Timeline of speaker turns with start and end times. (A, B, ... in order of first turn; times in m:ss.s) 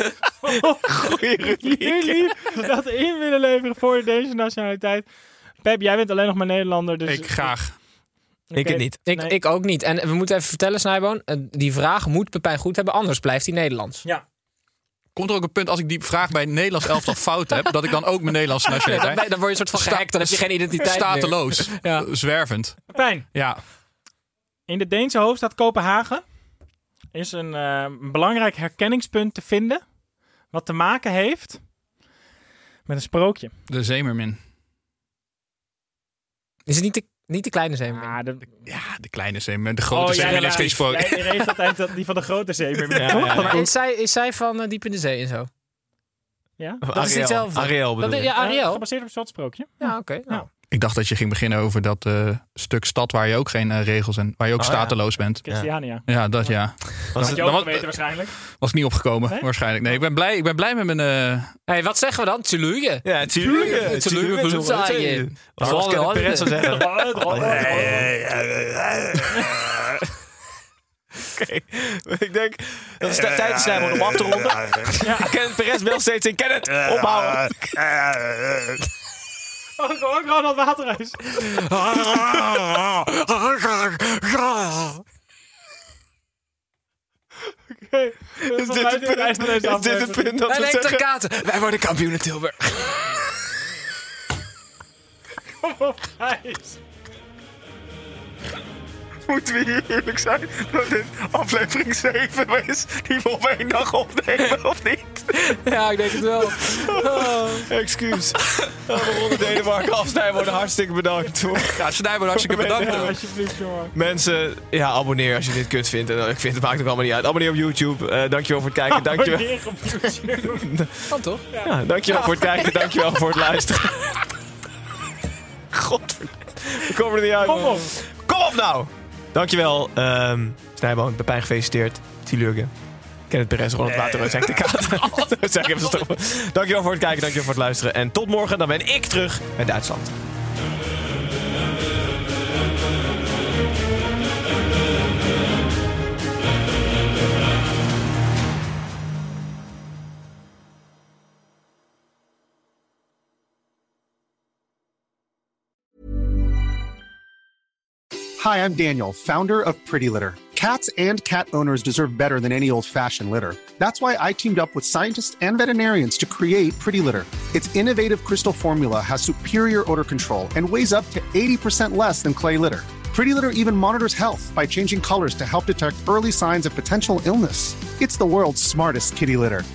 0:00.4-0:05.1 A
0:00.7-0:02.5 B
0:05.6-0:07.5 A
0:07.0-0:07.7 C
0:08.5-0:09.3 A
0:08.5-0:09.0 B
0:09.0-0:14.0 D
0:15.1-0:22.8 C
0:18.7-0:22.0 D
0:22.9-0:23.2 A
0:23.3-0:23.6 C
0:24.7-0:26.2 A
0:27.1-0:29.8 A
0:30.5-0:31.6 A
0:32.9-0:33.5 A
0:33.7-0:34.4 C
0:36.7-0:38.2 D
0:37.9-0:38.6 A
0:38.7-0:41.3 C
0:39.9-0:43.7 A
0:40.1-0:40.7 D
0:42.9-0:43.6 B
0:43.1-0:45.5 D
0:46.6-0:46.8 A
0:46.8-0:48.3 B
0:46.9-0:48.8 D
0:48.3-0:50.4 A
0:49.8-0:50.4 D
0:50.7-0:55.4 C
0:54.6-0:55.0 B
0:55.4-0:56.6 A
0:56.1-0:57.8 C
0:57.1-0:57.8 B
0:57.2-0:58.4 A
0:58.6-1:01.5 C
1:01.7-1:06.8 D
1:03.0-1:09.7 B
1:05.6-1:05.8 C
1:06.6-1:08.1 A
1:11.2-1:17.8 B
1:15.0-1:15.4 A
1:19.8-1:21.5 A
1:21.3-1:25.0 D
1:27.7-1:30.4 A
1:28.4-1:31.0 B
1:30.4-1:33.1 D
1:35.6-1:36.8 A
1:39.3-1:45.4 B
1:45.3-1:47.5 D
1:46.4-1:53.2 B
1:51.6-1:53.1 C
1:52.8-1:53.9 A
1:53.9-1:59.5 B
1:58.9-2:00.7 A
2:00.5-2:04.1 B
2:01.1-2:01.4 D
2:01.5-2:02.7 A
2:05.7-2:12.7 B
2:07.4-2:07.9 A
2:13.3-2:20.2 B
2:38.4-2:59.6 E